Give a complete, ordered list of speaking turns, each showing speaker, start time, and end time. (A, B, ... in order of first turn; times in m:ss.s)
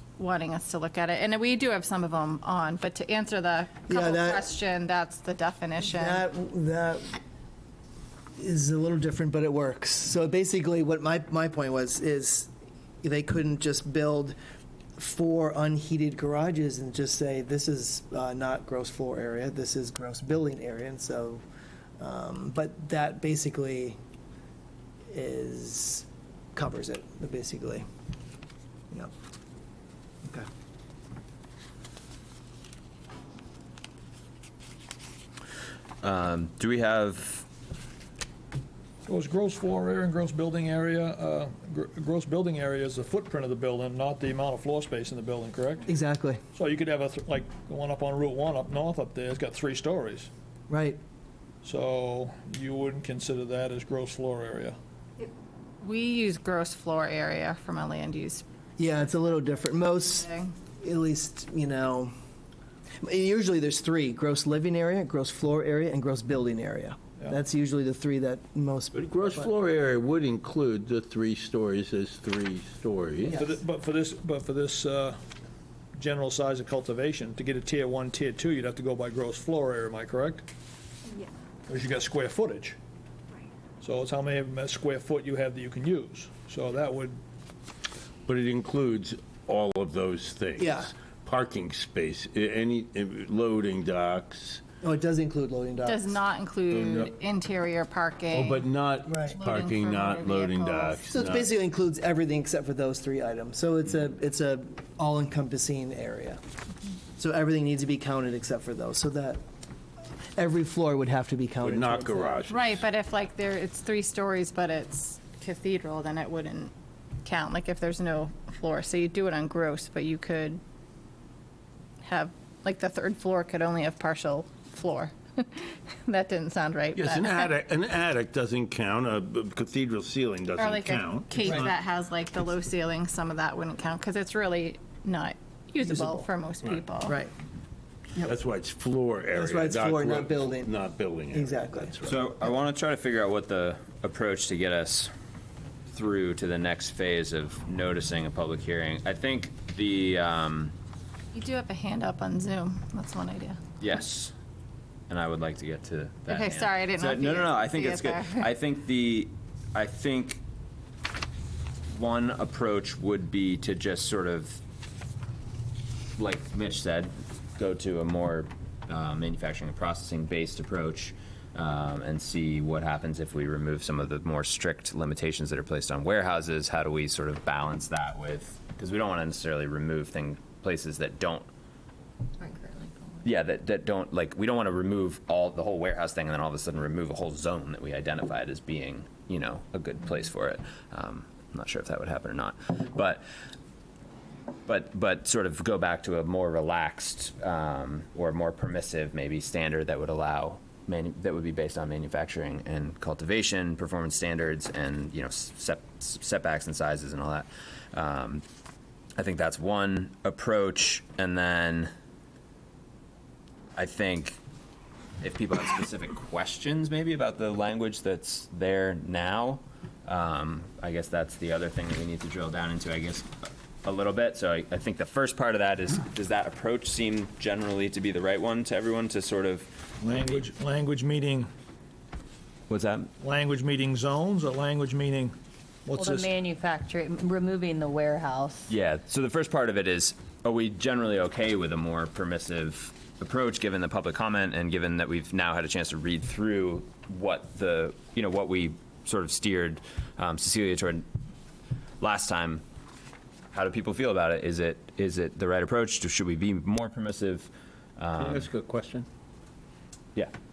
0:00.2-0:06.2 A
0:03.9-0:04.4 B
0:05.8-0:07.2 B
0:08.4-0:12.5 B
0:13.0-0:14.4 B
0:15.0-0:21.4 B
0:22.0-0:24.0 B
0:25.1-0:27.8 B
0:36.0-0:37.4 C
0:39.0-0:45.8 D
0:45.8-0:46.4 B
0:46.5-0:50.3 D
0:50.7-0:51.0 B
0:51.6-0:54.8 D
0:55.8-0:58.4 A
0:58.8-1:00.3 B
1:00.1-1:00.5 A
1:00.8-1:02.1 B
1:03.0-1:09.5 B
1:08.9-1:13.4 E
1:13.3-1:15.2 D
1:16.0-1:20.4 D
1:21.7-1:22.8 D
1:23.8-1:27.2 D
1:28.2-1:34.6 E
1:30.6-1:30.9 B
1:34.8-1:36.1 B
1:35.8-1:38.7 A
1:36.7-1:37.1 E
1:38.3-1:41.6 E
1:39.1-1:39.4 B
1:39.2-1:41.0 A
1:41.1-1:46.4 B
1:47.2-1:49.4 B
1:50.3-1:52.4 B
1:51.6-1:52.8 E
1:52.5-1:56.7 A
1:57.2-2:00.6 A
2:02.0-2:07.5 A
2:06.9-2:11.7 E
2:10.6-2:17.2 A
2:15.8-2:16.3 B
2:17.0-2:17.3 B
2:18.2-2:22.2 E
2:19.3-2:20.7 B
2:21.3-2:22.0 B
2:22.0-2:25.1 C
2:25.9-2:30.7 C
2:31.3-2:33.6 A
2:33.8-2:34.3 C
2:35.1-2:40.4 C
2:36.3-2:38.5 A
2:41.9-2:44.6 C
2:46.2-3:01.5 C
3:02.4-3:03.2 F
3:03.2-3:13.2 C
3:14.7-3:28.4 C
3:29.2-3:31.9 C
3:33.8-3:34.4 C
3:35.2-3:43.3 C
3:43.8-3:50.1 C
3:50.0-3:51.5 D
3:52.7-3:53.1 C
3:53.2-3:55.3 D
3:55.8-3:56.3 D
3:55.9-3:58.7 F
3:58.7-4:11.0 C
4:12.0-4:12.6 C
4:13.5-4:18.5 C
4:18.2-4:19.0 E